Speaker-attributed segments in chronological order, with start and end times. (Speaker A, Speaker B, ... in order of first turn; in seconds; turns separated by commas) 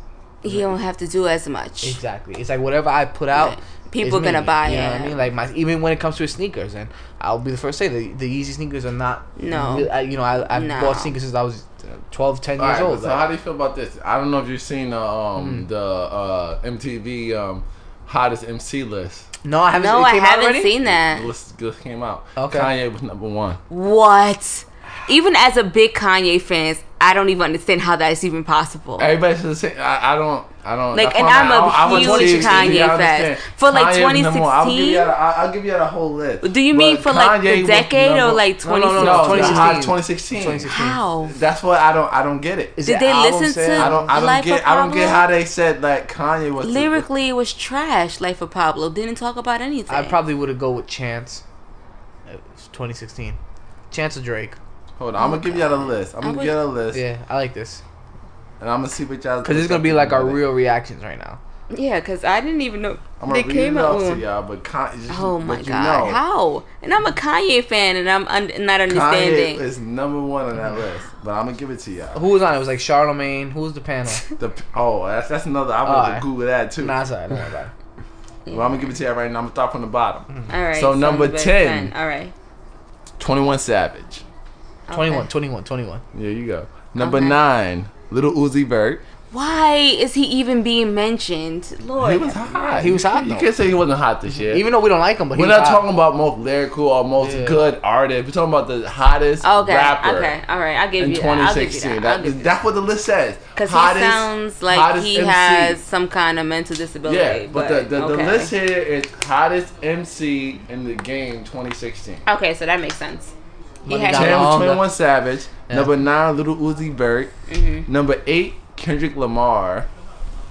Speaker A: 0.4-2.0, Speaker B: 0.5-0.7, Speaker B: 1.8-13.3, Speaker A: 3.3-5.2, Speaker A: 9.4-9.9, Speaker A: 10.5-11.1, Speaker C: 12.6-19.3, Speaker B: 15.4-15.7, Speaker B: 19.4-20.7, Speaker A: 19.7-21.3, Speaker C: 20.8-23.6, Speaker B: 22.4-22.7, Speaker A: 23.7-29.1, Speaker C: 29.0-38.4, Speaker A: 30.9-35.1, Speaker B: 31.9-32.9, Speaker A: 36.4-39.8, Speaker B: 38.6-41.0, Speaker C: 38.9-42.8, Speaker A: 40.7-41.4, Speaker B: 42.8-44.0, Speaker A: 42.9-45.3, Speaker C: 43.8-47.1, Speaker A: 46.6-50.2, Speaker B: 49.9-51.4, Speaker B: 52.3-53.4, Speaker B: 53.9-54.6, Speaker C: 55.0-57.0, Speaker A: 55.2-56.5, Speaker B: 56.9-57.8, Speaker C: 58.6-60.4, Speaker B: 59.4-61.4, Speaker A: 61.7-64.2, Speaker C: 63.2-66.2, Speaker A: 65.1-69.6, Speaker C: 68.9-72.2, Speaker B: 72.1-74.2, Speaker C: 74.4-77.0, Speaker B: 75.8-76.3, Speaker B: 76.8-77.7, Speaker A: 78.5-78.9, Speaker C: 78.5-81.9, Speaker A: 80.5-82.3, Speaker C: 83.2-84.2, Speaker A: 84.9-85.3, Speaker B: 84.9-86.0, Speaker C: 86.1-89.0, Speaker A: 87.0-87.4, Speaker A: 89.3-92.7, Speaker C: 92.0-94.7, Speaker B: 92.8-93.5, Speaker B: 94.4-95.8, Speaker C: 95.3-100.4, Speaker B: 97.2-97.6, Speaker A: 99.4-102.5, Speaker C: 101.0-105.8, Speaker A: 103.6-108.5, Speaker C: 107.0-112.2, Speaker A: 112.2-113.3, Speaker B: 113.8-114.9, Speaker A: 113.9-114.6, Speaker C: 114.1-117.3, Speaker A: 117.5-117.9, Speaker C: 117.9-119.9